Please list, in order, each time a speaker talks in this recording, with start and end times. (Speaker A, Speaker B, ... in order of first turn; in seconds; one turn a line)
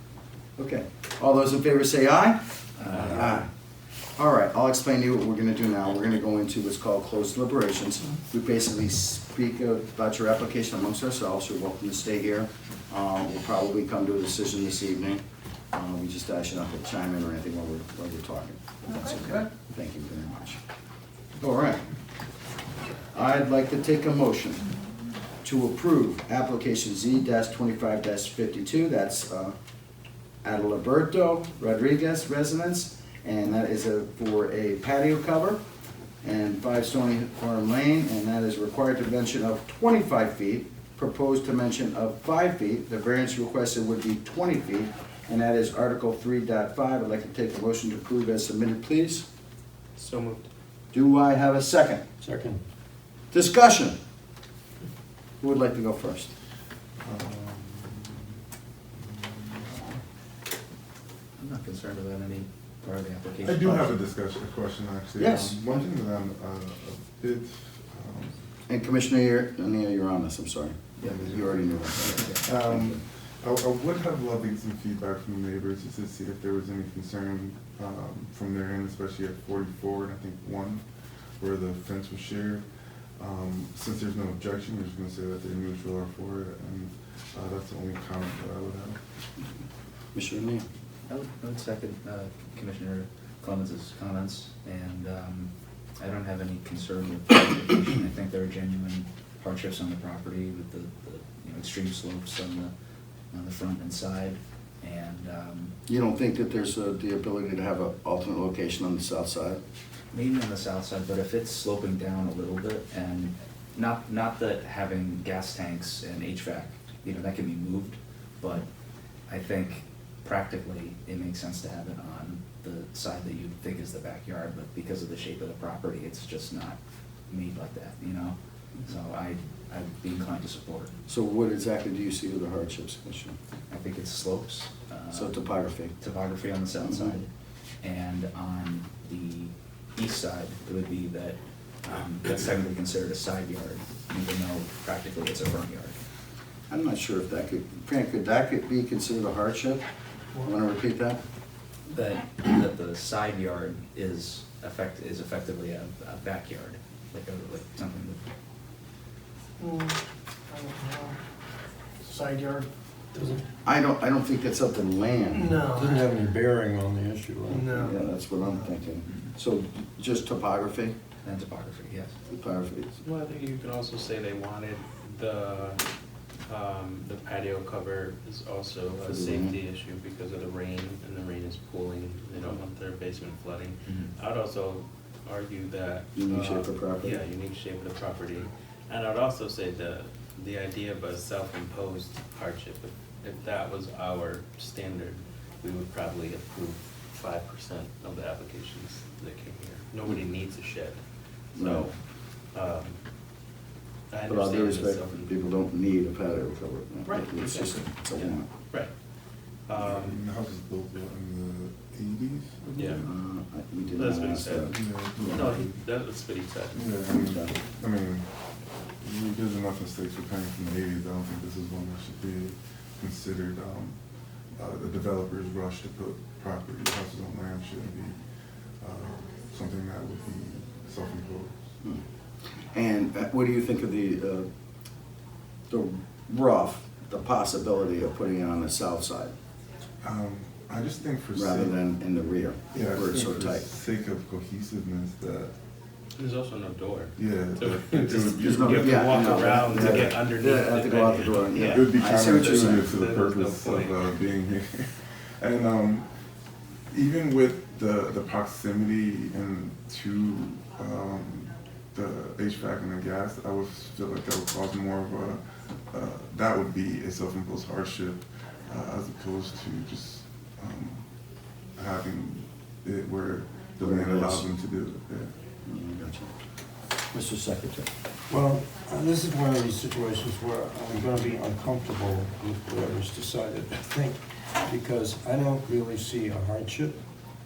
Speaker A: 0.6-3.5
Speaker B: 2.8-3.3
Speaker C: 2.9-3.3
Speaker A: 4.2-20.6
Speaker A: 21.4-21.9
Speaker A: 23.1-24.6
Speaker A: 25.4-29.5
Speaker A: 30.4-35.6
Speaker A: 36.2-49.3
Speaker C: 50.0-50.5
Speaker A: 50.9-52.0
Speaker D: 52.2-52.6
Speaker A: 53.3-54.0
Speaker A: 55.4-56.3
Speaker E: 57.0-58.3
Speaker E: 58.9-60.0
Speaker B: 61.4-64.0
Speaker E: 63.4-68.4
Speaker A: 65.2-65.6
Speaker A: 68.7-72.9
Speaker B: 71.0-71.4
Speaker E: 71.0-80.8
Speaker B: 72.0-72.8
Speaker E: 81.4-89.0
Speaker A: 90.1-90.7
Speaker B: 91.1-102.7
Speaker B: 103.3-105.8
Speaker A: 105.9-109.6
Speaker B: 110.1-118.7
Speaker B: 119.3-128.3
Speaker B: 128.8-130.9
Speaker A: 131.1-133.4
Speaker B: 133.7-137.3
Speaker A: 135.1-136.0
Speaker A: 136.8-137.2
Speaker B: 137.8-146.0
Speaker A: 146.7-149.8
Speaker A: 150.4-151.2
Speaker B: 151.9-158.2
Speaker F: 159.6-159.9
Speaker F: 160.5-161.1
Speaker F: 162.0-162.7
Speaker D: 163.1-163.4
Speaker A: 163.6-165.7
Speaker F: 165.3-165.9
Speaker D: 165.7-167.9
Speaker F: 167.6-167.9
Speaker A: 167.8-170.9
Speaker B: 169.1-169.3
Speaker B: 171.2-172.1
Speaker A: 172.3-172.9
Speaker C: 173.0-175.8
Speaker C: 176.5-201.0
Speaker A: 179.0-179.6
Speaker B: 183.8-184.1
Speaker A: 186.1-187.2
Speaker C: 201.5-201.9
Speaker A: 201.6-201.9
Speaker C: 202.5-203.0
Speaker C: 204.1-205.3
Speaker A: 204.3-208.5
Speaker C: 207.1-208.9
Speaker C: 209.7-210.2
Speaker E: 209.8-213.1
Speaker C: 212.8-213.1
Speaker A: 213.0-215.4
Speaker C: 214.0-216.9
Speaker E: 214.7-215.8
Speaker E: 216.7-218.3
Speaker A: 217.0-217.5
Speaker E: 219.0-224.0
Speaker E: 224.6-228.2
Speaker E: 228.8-231.5
Speaker A: 232.7-234.5
Speaker A: 235.7-239.3
Speaker E: 240.0-241.8
Speaker A: 241.3-243.6
Speaker E: 242.7-245.5
Speaker C: 246.2-254.1
Speaker E: 247.2-250.2
Speaker A: 248.4-252.9
Speaker E: 251.7-256.1
Speaker E: 256.9-271.1
Speaker E: 271.8-275.3
Speaker A: 273.8-274.5
Speaker A: 275.6-276.3
Speaker A: 277.1-277.9
Speaker D: 278.3-287.0